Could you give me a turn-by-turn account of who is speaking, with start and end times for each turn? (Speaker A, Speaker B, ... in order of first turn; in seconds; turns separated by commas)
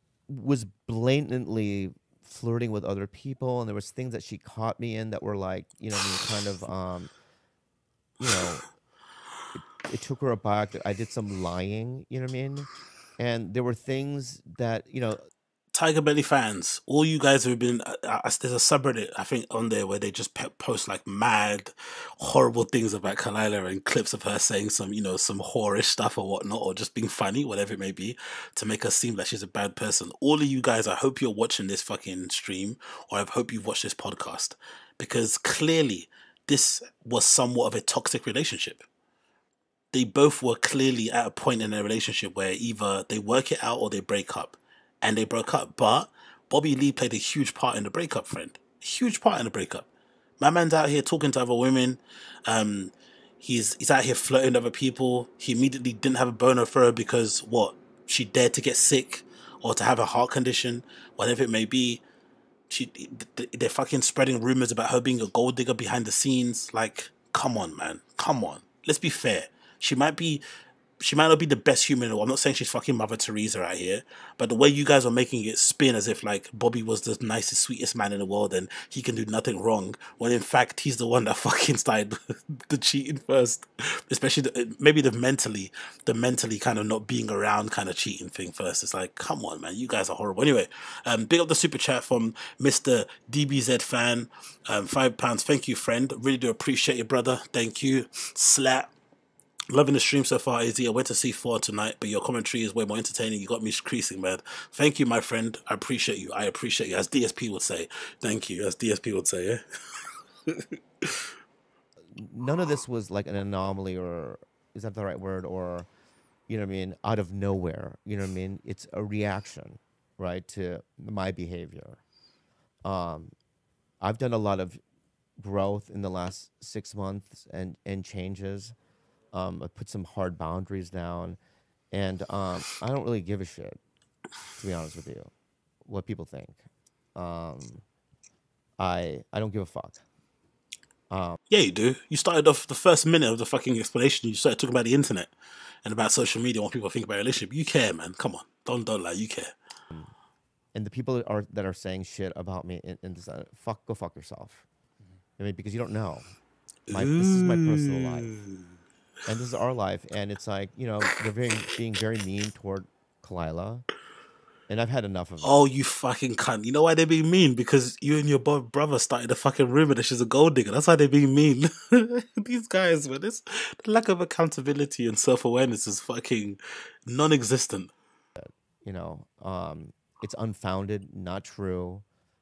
Speaker A: 0.3-7.1, Speaker A: 8.2-8.6, Speaker A: 9.6-15.3, Speaker B: 15.7-38.8, Speaker B: 39.9-49.9, Speaker B: 50.4-62.0, Speaker B: 62.7-70.4, Speaker B: 71.0-98.9, Speaker B: 99.7-109.6, Speaker B: 110.5-111.3, Speaker A: 112.1-115.9, Speaker A: 116.5-122.0, Speaker A: 122.8-123.3, Speaker A: 124.0-124.8, Speaker A: 125.4-128.8, Speaker A: 129.3-131.4, Speaker A: 131.9-133.8, Speaker A: 134.6-135.3, Speaker A: 135.8-136.6, Speaker A: 137.2-137.8, Speaker A: 138.8-140.0, Speaker A: 141.1-141.4, Speaker B: 141.5-145.3, Speaker B: 145.8-149.5, Speaker A: 150.7-154.7, Speaker A: 155.4-156.3, Speaker B: 156.9-158.5, Speaker A: 156.9-158.3, Speaker A: 159.3-163.9, Speaker A: 164.7-165.6, Speaker B: 165.4-177.9, Speaker A: 178.4-182.1